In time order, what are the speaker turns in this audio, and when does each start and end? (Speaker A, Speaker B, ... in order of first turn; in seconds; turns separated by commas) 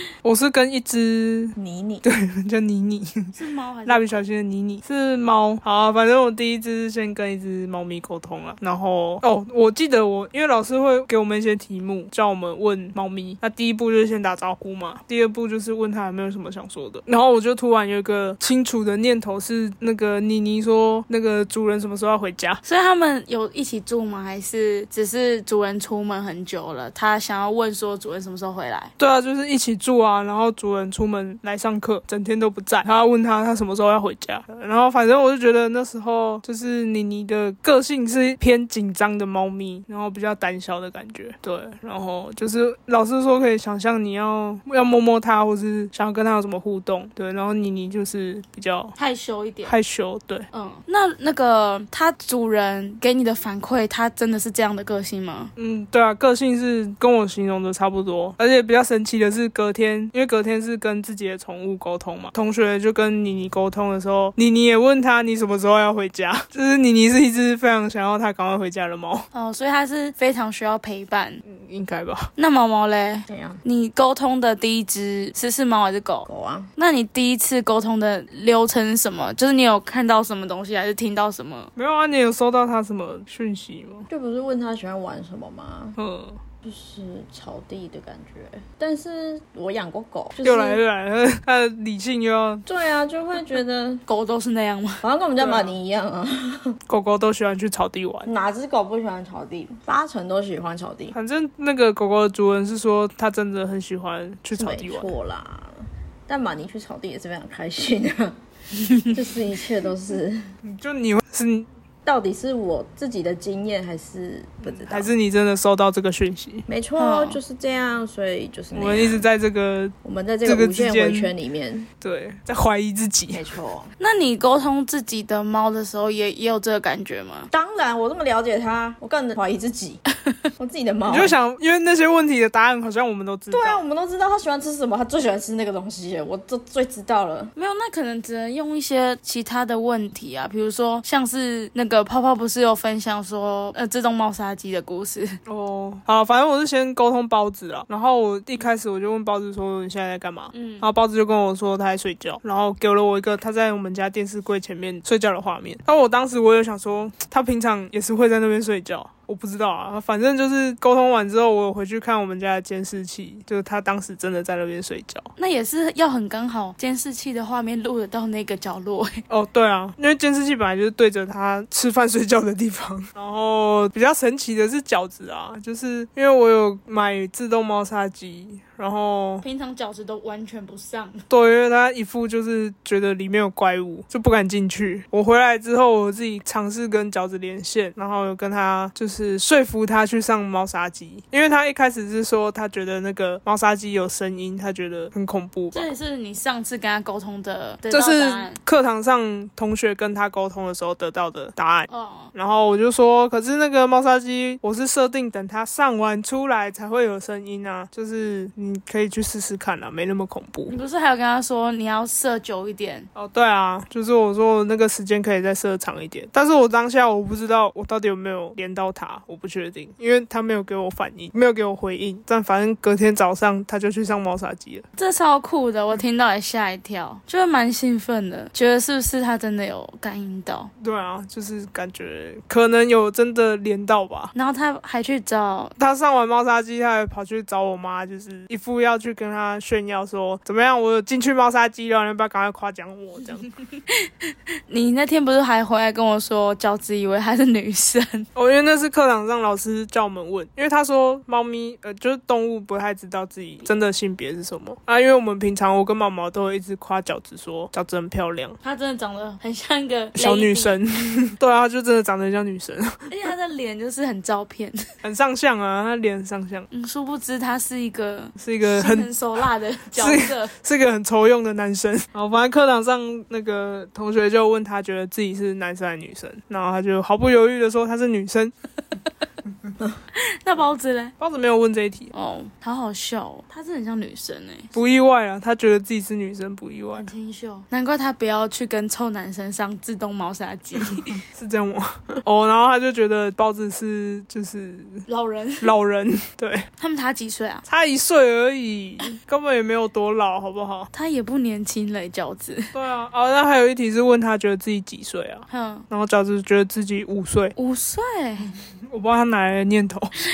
Speaker A: 0.2-22.6, Speaker B: 1.6-2.0, Speaker C: 3.3-4.2, Speaker C: 22.6-28.9, Speaker A: 29.0-48.9, Speaker C: 49.0-49.8, Speaker A: 49.6-50.5, Speaker C: 50.5-55.5, Speaker A: 55.6-69.3, Speaker C: 69.3-71.4, Speaker A: 71.5-72.3, Speaker C: 72.4-81.7, Speaker B: 73.3-73.6, Speaker B: 76.3-76.7, Speaker A: 81.8-84.1, Speaker B: 84.1-86.0, Speaker A: 86.0-86.4, Speaker B: 86.6-90.8, Speaker A: 90.4-92.6, Speaker B: 92.7-94.0, Speaker C: 94.1-95.0, Speaker B: 95.0-96.8, Speaker A: 95.4-95.7, Speaker A: 96.9-98.3, Speaker B: 98.3-101.1, Speaker A: 101.1-105.1, Speaker B: 104.5-108.4, Speaker B: 108.9-110.5, Speaker A: 110.6-111.7, Speaker B: 112.0-115.1, Speaker A: 114.7-116.7, Speaker B: 116.7-119.3, Speaker C: 117.0-117.4, Speaker A: 118.7-121.3, Speaker B: 120.0-121.9, Speaker A: 122.0-123.4, Speaker B: 123.3-123.9, Speaker C: 124.0-127.5, Speaker B: 127.5-130.0, Speaker B: 130.6-131.4, Speaker A: 131.1-133.8, Speaker B: 133.5-137.5, Speaker C: 137.6-145.3, Speaker A: 145.4-165.3, Speaker C: 150.5-150.8, Speaker C: 165.4-169.2, Speaker A: 169.3-179.4, Speaker C: 179.4-181.2, Speaker A: 181.3-195.9, Speaker C: 195.7-198.6, Speaker A: 197.9-210.7, Speaker C: 201.9-202.3, Speaker C: 210.7-213.1, Speaker A: 213.1-224.8, Speaker C: 224.9-230.7, Speaker A: 230.8-234.3, Speaker C: 234.3-235.7, Speaker A: 235.8-243.5, Speaker C: 243.9-248.3, Speaker A: 248.3-258.6, Speaker C: 258.6-260.8, Speaker A: 260.1-263.1, Speaker C: 263.1-264.8, Speaker A: 265.0-266.7, Speaker C: 266.7-270.5, Speaker A: 268.4-269.1, Speaker A: 269.9-278.5, Speaker C: 280.1-281.1, Speaker A: 281.2-282.1, Speaker C: 282.1-284.7, Speaker A: 284.7-287.1, Speaker C: 286.9-291.2, Speaker A: 291.0-295.0, Speaker C: 295.1-295.7, Speaker A: 295.6-296.7, Speaker C: 296.8-297.6, Speaker A: 297.7-300.9, Speaker C: 300.9-302.7, Speaker A: 302.7-307.6, Speaker C: 305.5-305.9, Speaker C: 307.6-308.5, Speaker A: 308.5-310.1